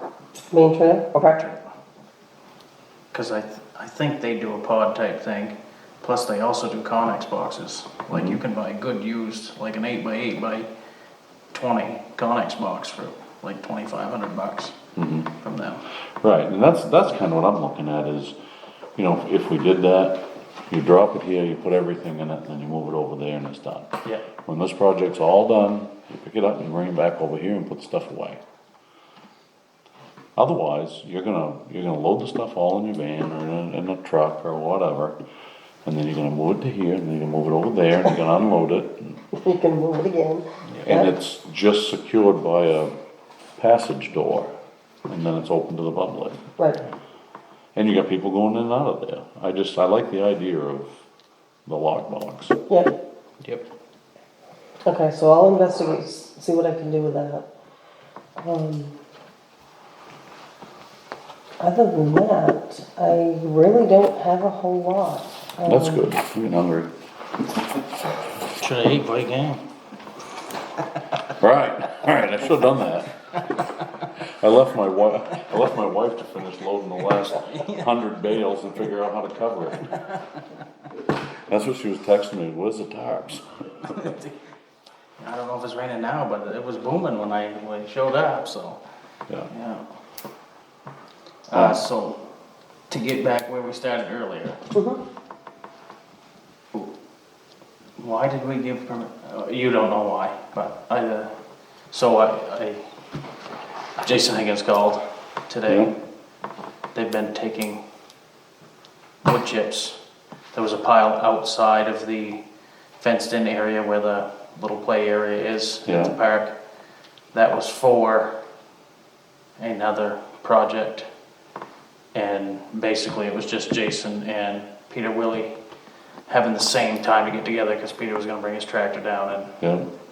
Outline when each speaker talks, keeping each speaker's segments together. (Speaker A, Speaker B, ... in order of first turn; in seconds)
Speaker A: 0.5-1.4, 39.3-41.1, 52.7-52.9, 54.9-57.5, 58.4-59.0, 61.6-66.0, 94.7-95.0
Speaker B: 3.1-10.7, 11.5-14.7, 15.4-15.8, 68.6-69.6, 77.3-77.9, 83.8-84.3, 85.2-88.8, 89.5-89.8, 91.5-92.2, 92.9-94.6, 98.0-101.3, 101.9-102.8, 104.0-105.9, 106.9-107.8, 109.2-110.0, 110.5-112.4, 113.0-116.5, 117.3-118.3, 119.6-121.1, 122.1-125.5, 126.3-129.6
Speaker C: 8.1-8.4, 14.9-15.3, 16.2-18.3, 18.9-28.4, 30.4-35.1, 35.8-39.2, 40.8-42.9, 43.6-44.5, 45.1-46.5, 47.7-51.0, 51.7-52.6, 65.6-66.9, 71.3-73.3, 74.2-80.0, 81.3-83.5, 105.7-105.9, 115.8-116.1, 129.6-129.8